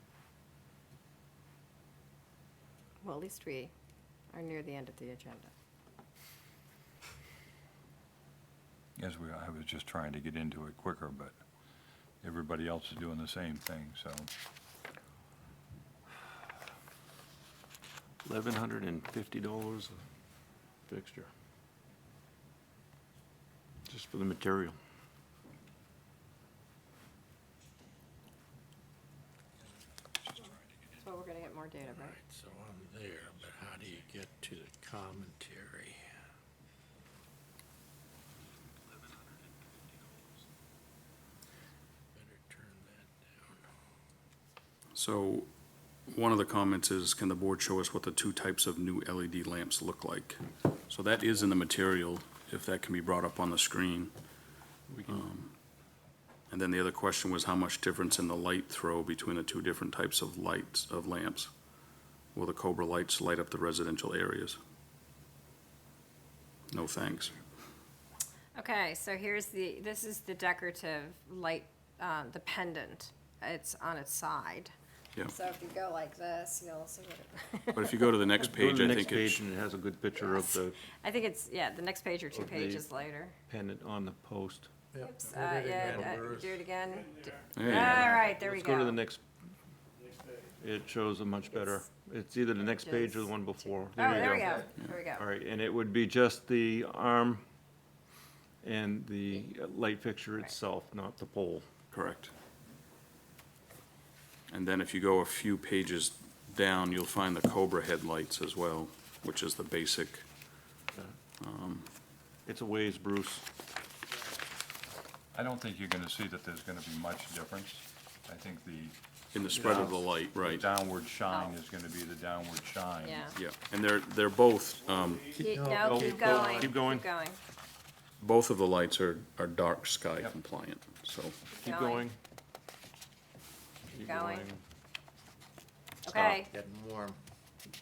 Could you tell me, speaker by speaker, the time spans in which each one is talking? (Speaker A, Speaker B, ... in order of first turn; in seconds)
Speaker A: 3.0-3.7, 4.3-5.5, 31.0-32.2, 68.5-74.7, 75.2-78.4, 80.2-83.3, 85.0-89.0, 92.8-93.3, 93.9-95.2, 121.3-121.6, 123.0-123.3, 125.3-127.4, 131.6-132.0, 134.0-134.5, 136.0-136.5
Speaker B: 9.0-11.4, 12.2-14.3, 115.3-119.0, 119.5-123.3
Speaker C: 18.2-20.0, 20.9-21.3, 23.9-24.8, 54.9-55.2, 78.4-80.8, 82.3-82.8, 83.5-84.7, 87.7-89.2, 90.5-97.4, 98.6-101.7, 112.5-113.4, 125.7-127.1, 131.6-132.2, 133.9-134.6
Speaker D: 32.0-36.0, 42.1-43.6, 84.9-86.6, 125.6-126.7, 136.5-137.2
Speaker E: 44.9-45.5, 46.1-54.1, 55.0-55.5, 56.5-61.5, 62.3-64.6, 66.7-67.4, 77.7-79.4, 87.5-88.2, 101.9-102.3, 104.5-110.3, 111.4-111.9, 119.3-120.6, 123.3-125.4, 128.2-131.4, 136.1-136.4